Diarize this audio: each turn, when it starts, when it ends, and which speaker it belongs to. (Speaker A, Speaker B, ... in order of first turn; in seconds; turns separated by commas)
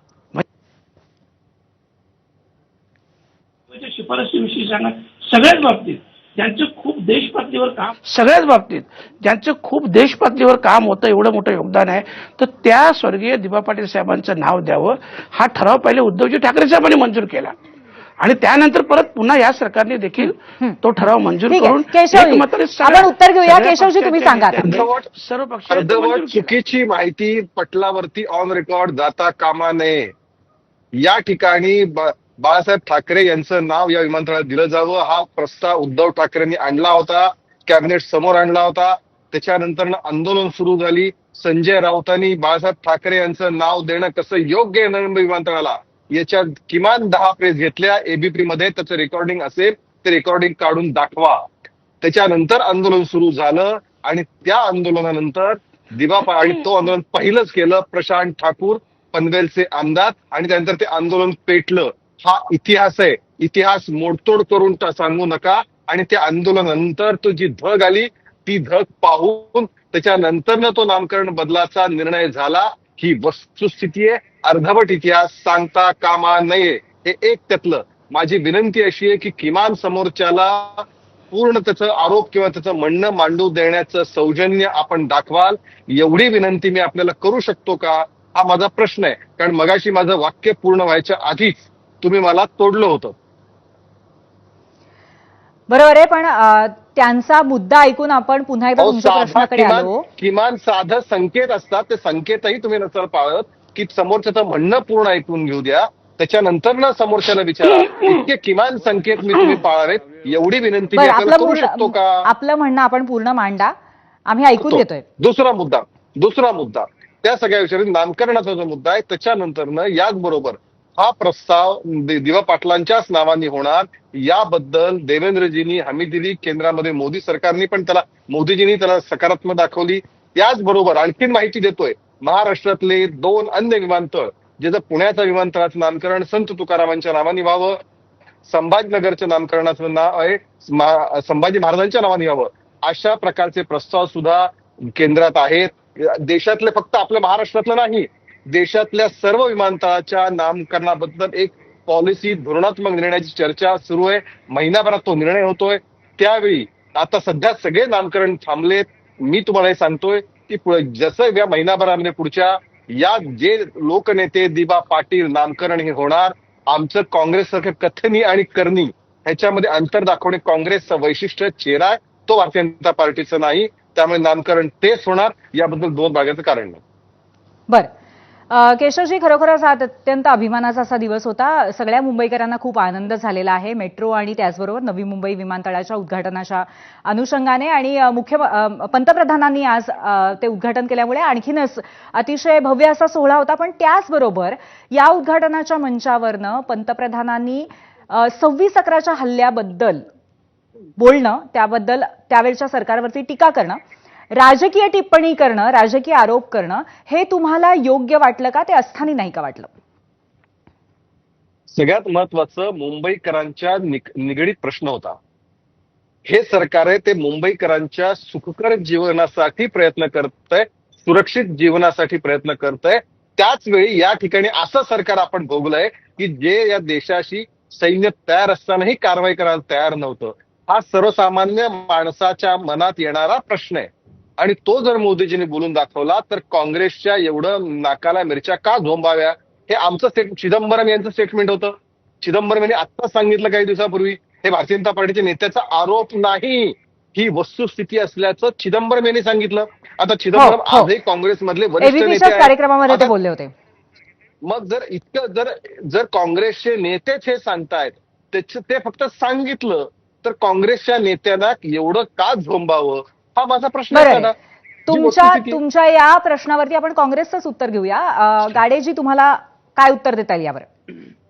Speaker A: 3.7-17.5, Speaker A: 18.2-26.6, Speaker B: 20.2-20.8, Speaker B: 21.5-24.7, Speaker C: 24.6-25.1, Speaker C: 25.7-30.1, Speaker C: 31.0-51.5, Speaker C: 52.0-93.1, Speaker B: 95.7-100.0, Speaker C: 98.8-112.3, Speaker B: 110.9-113.7, Speaker B: 114.3-115.0, Speaker C: 114.6-137.8, Speaker C: 138.4-176.8, Speaker B: 178.5-200.0, Speaker B: 201.0-203.8, Speaker B: 204.3-209.7, Speaker C: 211.7-215.2, Speaker C: 216.2-233.9, Speaker C: 234.4-253.1, Speaker B: 250.3-250.9, Speaker B: 251.8-253.5, Speaker C: 254.4-264.4, Speaker B: 263.9-264.3, Speaker B: 264.9-270.7, Speaker C: 264.9-265.6